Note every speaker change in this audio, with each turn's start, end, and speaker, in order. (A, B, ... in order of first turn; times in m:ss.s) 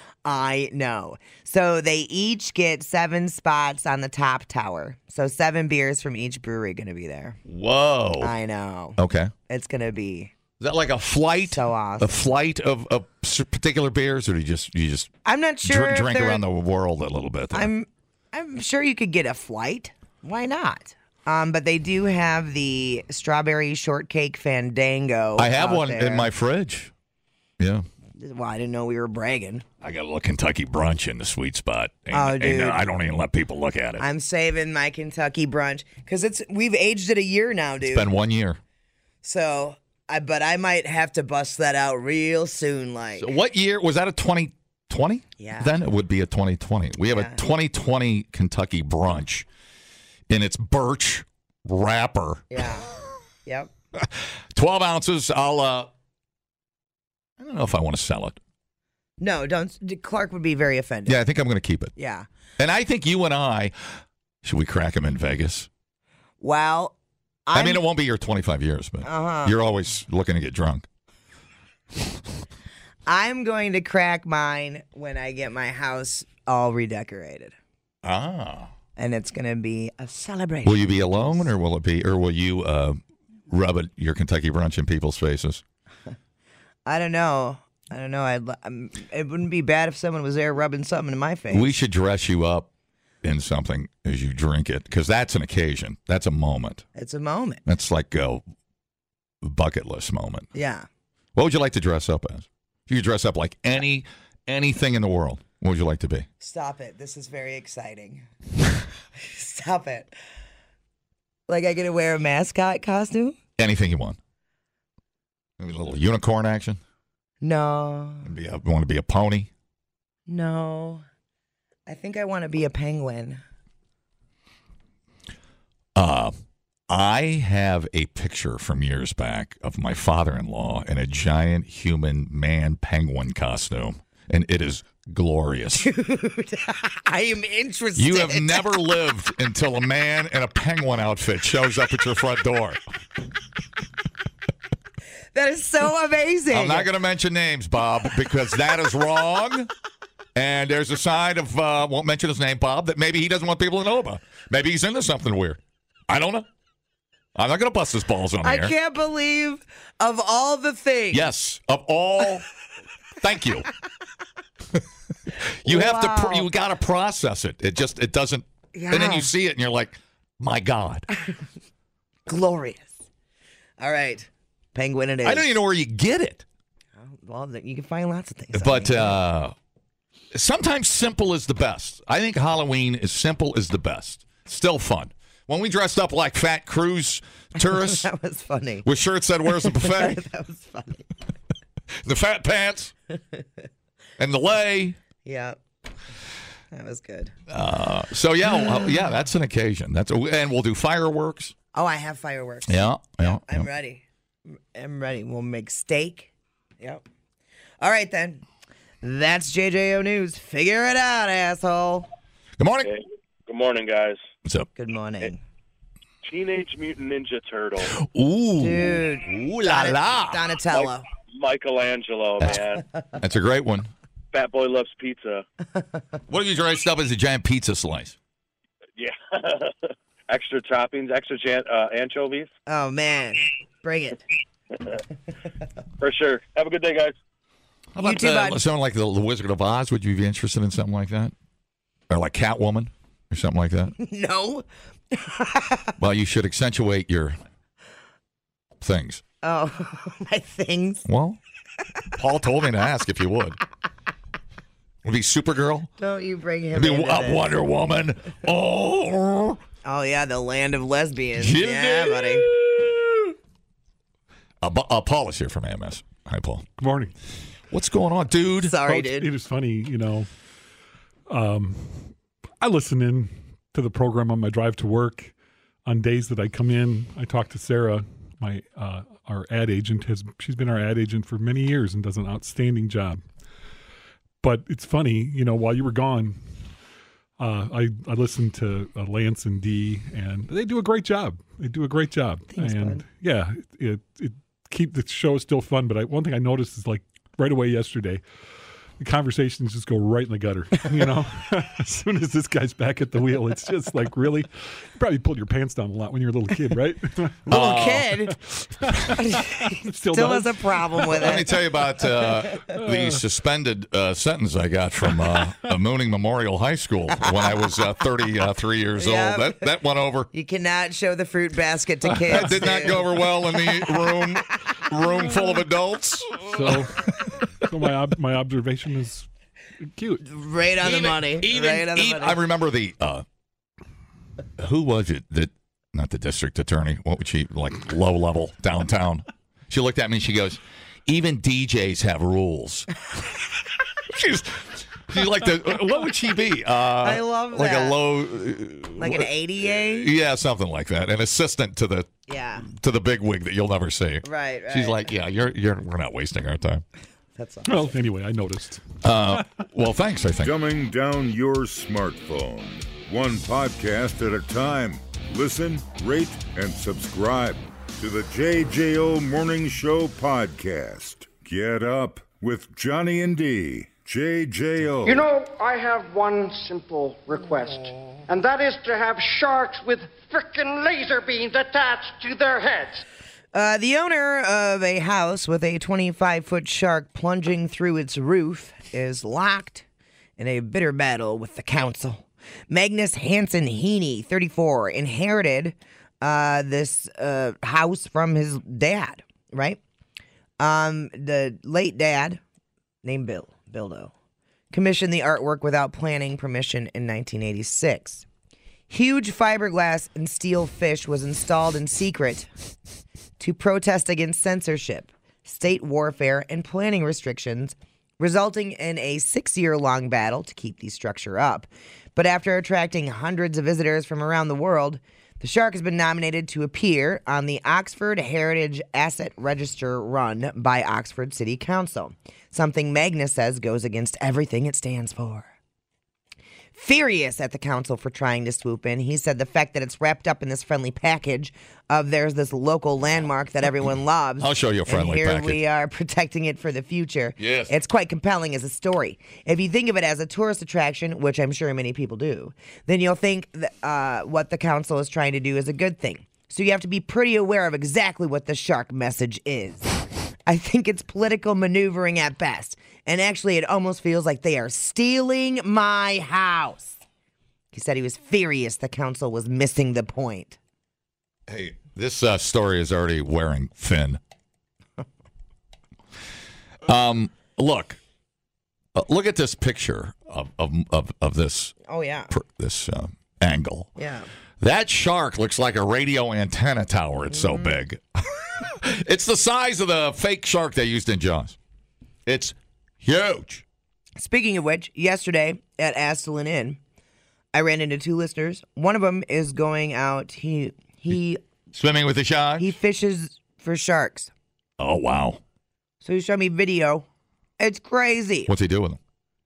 0:00.2-0:07.4 A
0:07.4-0:08.3 B
0:08.2-0:10.3 A
0:09.0-0:09.3 B
0:10.6-0:15.1 B
0:11.5-0:12.1 A
0:15.2-0:16.4 A
0:15.6-0:17.7 B
0:17.5-0:26.3 A
0:25.4-0:26.9 B
0:27.6-0:27.8 B
0:28.2-0:29.6 A
0:29.8-0:34.0 B
0:32.1-0:32.8 A
0:34.0-0:38.1 A
0:37.8-0:38.6 B
0:39.2-0:43.3 A
0:43.2-0:49.4 B
0:45.4-0:45.7 A
0:47.1-0:47.4 A
0:50.3-0:52.5 B
0:52.5-0:52.9 A
0:53.4-0:53.7 A
0:54.0-0:55.9 B
0:57.4-0:58.4 B
0:59.2-1:01.2 A
1:01.0-1:01.9 B
1:02.0-1:02.2 A
1:02.6-1:05.7 B
1:06.4-1:07.8 A
1:07.5-1:10.8 B
1:09.0-1:09.6 A
1:13.0-1:17.5 A
1:18.0-1:18.7 B
1:19.0-1:21.5 A
1:20.6-1:25.6 B
1:26.8-1:31.8 A
1:31.5-1:32.7 B
1:33.2-1:36.8 B
1:36.9-1:37.6 A
1:37.6-1:38.4 B
1:39.4-1:40.5 B
1:40.5-1:40.8 A
1:41.3-1:46.3 B
1:46.4-1:48.2 A
1:49.2-1:50.1 A
1:51.5-1:53.4 A
1:53.6-1:54.2 B
1:55.6-1:56.8 B
1:57.4-1:58.3 A
1:58.2-1:59.5 B
2:00.3-2:01.0 A
2:01.9-2:03.4 A
2:05.9-2:06.3 B
2:06.9-2:15.9 B
2:15.7-2:18.7 A
2:18.0-2:22.8 B
2:25.3-2:26.9 A
2:26.5-2:29.7 B
2:30.3-2:36.5 B
2:37.3-2:38.7 B
2:38.4-2:41.3 A
2:41.1-2:42.4 B
2:43.2-2:43.7 B
2:45.3-2:51.1 B
2:45.6-2:46.5 A
2:48.7-2:49.3 A
2:52.3-2:53.0 A
2:53.8-2:55.5 A
2:55.2-2:56.4 B
2:57.0-2:59.2 A
2:58.5-2:59.5 B
3:00.3-3:08.1 B
3:07.6-3:08.8 A
3:08.8-3:10.2 B
3:09.6-3:11.1 A
3:12.0-3:12.9 B
3:14.2-3:15.0 B
3:15.2-3:15.6 A
3:16.7-3:17.3 A
3:17.5-3:21.5 B
3:21.7-3:26.3 A
3:22.7-3:23.7 B
3:27.8-3:28.4 A
3:29.0-3:32.1 A
3:32.6-3:32.9 B
3:32.8-3:34.2 C
3:34.8-3:35.4 A
3:36.2-3:37.9 C
3:37.8-3:40.4 B
3:38.6-3:41.0 A
3:41.3-3:42.8 C
3:43.2-3:43.9 B
3:44.3-3:45.4 C
3:46.3-3:48.2 B
3:49.0-3:49.7 C
3:50.3-3:52.5 C
3:52.7-3:54.2 A
3:56.0-3:57.1 C
3:57.9-4:01.3 B
3:58.0-3:58.6 A
4:02.1-4:03.9 B
4:04.0-4:05.9 A
4:06.0-4:07.4 B
4:08.8-4:09.2 B
4:09.4-4:11.0 A
4:11.0-4:11.4 B
4:12.2-4:13.6 B
4:15.0-4:15.9 B
4:16.0-4:17.5 A
4:16.7-4:19.6 B
4:19.8-4:22.5 A
4:21.4-4:23.3 B
4:24.6-4:26.7 B
4:26.8-4:27.1 D
4:27.7-4:28.8 B
4:28.6-4:29.3 A
4:28.8-4:30.3 D
4:31.3-4:35.3 D
4:35.8-4:43.2 D
4:44.4-4:46.4 D
4:47.4-4:58.2 D
4:52.5-4:53.0 A
4:59.0-5:07.4 D
5:07.5-5:08.3 A
5:07.5-5:08.1 B
5:08.5-5:11.2 D
5:09.2-5:11.4 A
5:11.1-5:20.3 B
5:12.7-5:13.2 D
5:19.0-5:19.7 A
5:20.3-5:24.0 A
5:22.1-5:26.9 B
5:26.5-5:29.3 D
5:29.8-5:30.2 D
5:30.2-5:32.4 A
5:30.8-5:33.2 B
5:34.6-5:42.9 B
5:44.1-5:52.1 B
5:47.0-5:48.0 A
5:49.0-5:50.1 A
5:52.3-5:52.6 A
5:52.6-5:56.8 B
5:54.2-5:55.1 A
5:57.4-5:57.9 A
5:57.6-5:58.8 D
5:59.0-6:00.5 B
6:00.4-6:15.2 E
6:15.0-6:23.0 F
6:23.5-6:29.8 A
6:30.4-6:39.8 A
6:40.6-6:42.4 A
6:43.0-6:44.1 A
6:44.7-6:48.2 A
6:48.9-6:52.5 A
6:53.4-7:15.5 A
7:16.7-7:47.0 A
7:24.4-7:25.6 B
7:27.4-7:27.7 B
7:47.7-7:50.6 A
7:51.5-7:54.2 B
7:56.8-7:58.0 B
7:58.9-8:01.7 B
8:01.8-8:02.3 A
8:02.3-8:03.9 B
8:04.0-8:04.3 A
8:04.6-8:11.6 B
8:07.3-8:07.8 A
8:12.2-8:13.6 B
8:14.2-8:16.8 A
8:17.5-8:21.4 A
8:21.7-8:22.7 B
8:22.6-8:24.3 A
8:24.8-8:25.4 B
8:26.0-8:27.0 A
8:27.6-8:28.5 A
8:28.5-8:29.0 B